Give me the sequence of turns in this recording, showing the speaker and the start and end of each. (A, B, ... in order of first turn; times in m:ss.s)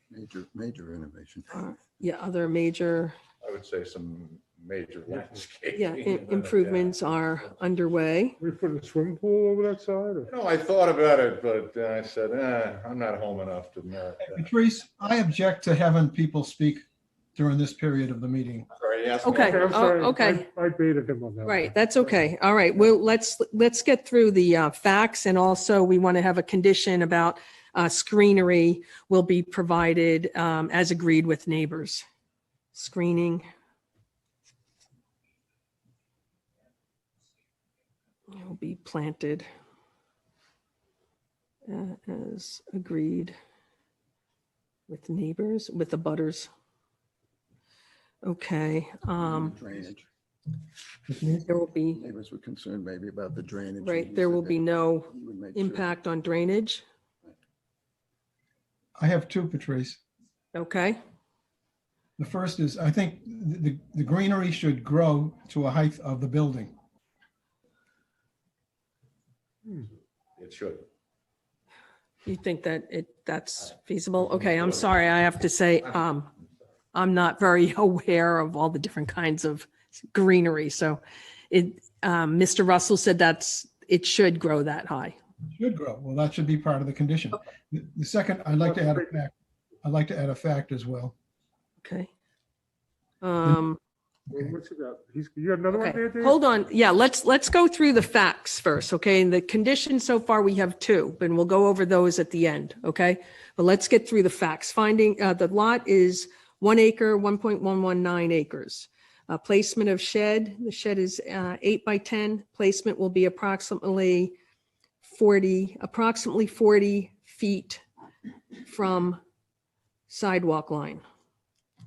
0:00.1-0:01.5 A
0:01.5-0:03.2 B
0:03.4-0:07.0 C
0:05.8-0:08.4 B
0:08.4-0:10.3 D
0:10.3-0:14.5 C
0:14.2-0:16.8 E
0:17.4-0:18.7 E
0:18.7-0:19.9 C
0:19.2-0:20.5 B
0:19.3-0:21.8 D
0:21.4-0:32.0 B
0:32.7-0:33.5 B
0:38.3-0:39.5 B
0:41.7-0:43.4 B
0:44.9-0:46.5 B
0:48.2-0:49.6 B
0:49.2-0:50.1 A
0:51.1-0:51.5 E
0:51.5-0:52.0 B
0:51.9-0:55.9 A
0:53.8-0:56.8 B
0:59.0-1:00.0 E
1:00.5-1:01.0 B
1:02.2-1:06.8 E
1:10.4-1:10.9 C
1:12.2-1:16.3 B
1:14.2-1:14.9 C
1:16.9-1:25.2 B
1:25.5-1:31.1 E
1:28.6-1:29.1 D
1:31.8-1:32.1 B
1:33.2-1:33.8 B
1:34.3-1:36.4 D
1:35.7-1:54.4 B
1:55.0-1:57.8 B
1:58.6-1:59.2 B
2:00.1-2:01.0 B